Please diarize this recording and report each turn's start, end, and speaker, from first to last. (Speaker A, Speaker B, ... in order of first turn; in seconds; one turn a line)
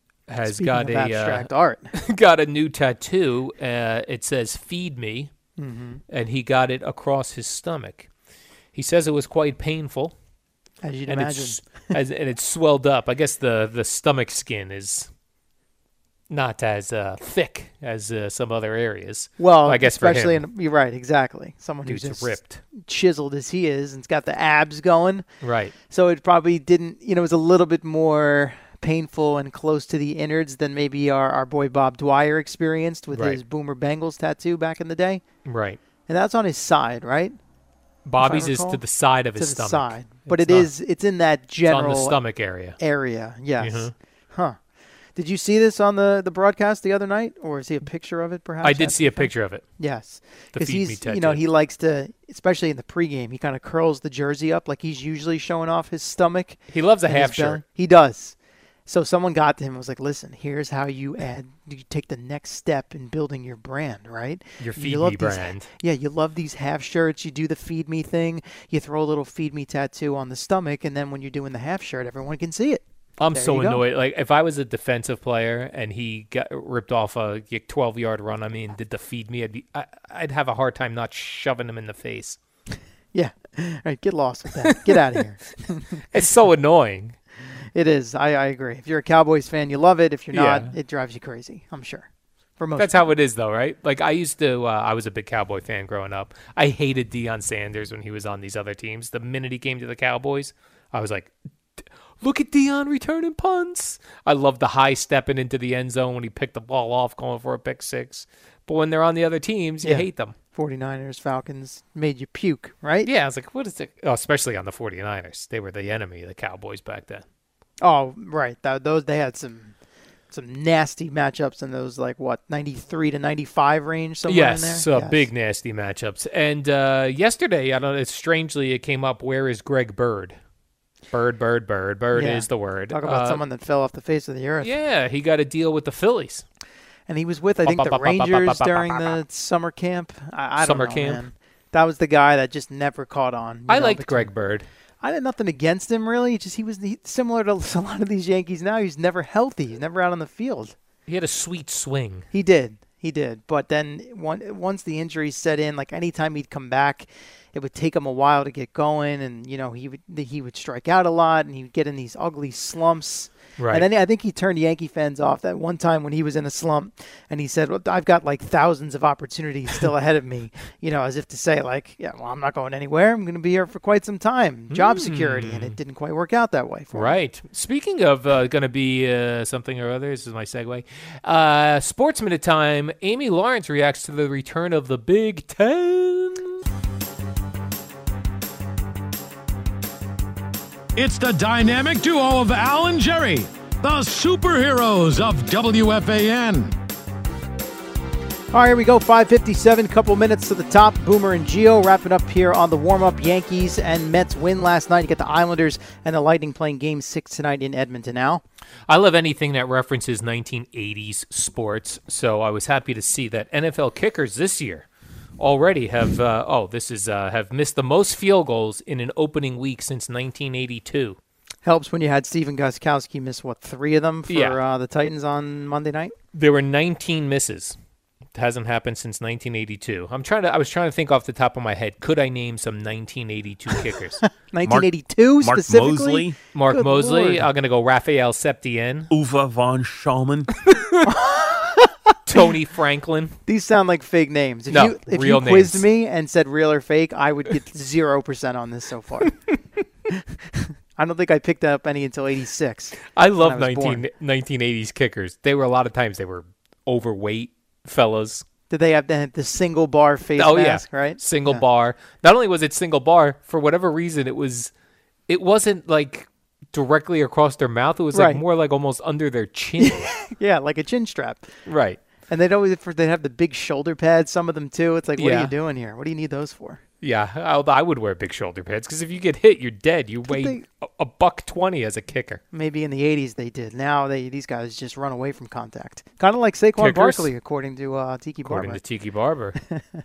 Speaker A: 0.3-5.3
Speaker B: 0.5-1.9
Speaker B: 5.6-6.0
Speaker A: 6.1-8.1
Speaker A: 8.7-10.1
Speaker B: 10.8-11.9
Speaker A: 11.1-15.1
Speaker A: 16.3-20.4
Speaker B: 19.4-25.2
Speaker A: 21.9-22.6
Speaker A: 25.4-25.8
Speaker B: 25.9-35.2
Speaker A: 33.1-33.4
Speaker A: 35.5-35.8
Speaker B: 36.1-37.4
Speaker A: 38.0-40.7
Speaker B: 38.2-38.8
Speaker B: 39.4-42.2
Speaker A: 41.7-42.8
Speaker B: 42.8-44.6
Speaker A: 43.6-43.9
Speaker B: 45.2-58.4
Speaker A: 48.6-49.6
Speaker A: 50.5-51.4
Speaker A: 56.7-57.6
Speaker B: 58.9-72.8
Speaker A: 64.6-65.7
Speaker A: 73.2-82.4
Speaker B: 73.3-73.8
Speaker B: 83.1-86.0
Speaker A: 86.1-87.2
Speaker B: 87.8-93.0
Speaker A: 90.3-90.7
Speaker A: 92.8-101.3
Speaker A: 102.2-110.3
Speaker B: 109.8-113.1
Speaker A: 113.0-117.2
Speaker B: 117.8-119.7
Speaker B: 120.3-125.3
Speaker A: 124.3-130.4
Speaker A: 131.1-133.4
Speaker B: 132.1-134.7
Speaker A: 134.6-136.4
Speaker B: 137.1-144.3
Speaker A: 137.6-139.2
Speaker A: 140.6-141.2
Speaker A: 143.7-144.7
Speaker B: 145.0-150.7
Speaker A: 151.1-152.3
Speaker B: 152.3-177.1
Speaker A: 163.6-163.9
Speaker A: 174.7-175.8
Speaker A: 176.9-186.5
Speaker C: 190.9-196.8
Speaker B: 198.5-208.4
Speaker A: 208.9-214.9
Speaker A: 215.4-221.2
Speaker B: 221.6-226.1
Speaker A: 224.3-224.6
Speaker A: 226.3-227.8
Speaker A: 228.3-234.2
Speaker B: 234.5-237.5
Speaker D: 234.6-236.4
Speaker A: 236.5-239.1
Speaker D: 239.1-240.5
Speaker A: 240.6-241.1
Speaker B: 241.1-241.9
Speaker A: 242.3-243.4
Speaker B: 243.5-249.4
Speaker A: 244.7-245.9
Speaker B: 250.1-254.0
Speaker A: 253.1-258.4
Speaker B: 258.7-261.6
Speaker A: 260.4-264.7
Speaker A: 265.3-270.1
Speaker B: 268.1-268.4
Speaker B: 269.8-271.5
Speaker A: 271.7-272.0
Speaker B: 272.3-276.8
Speaker A: 275.2-275.5
Speaker A: 277.0-282.4
Speaker B: 280.3-280.6
Speaker B: 282.5-288.8
Speaker A: 286.8-287.3
Speaker A: 288.4-289.6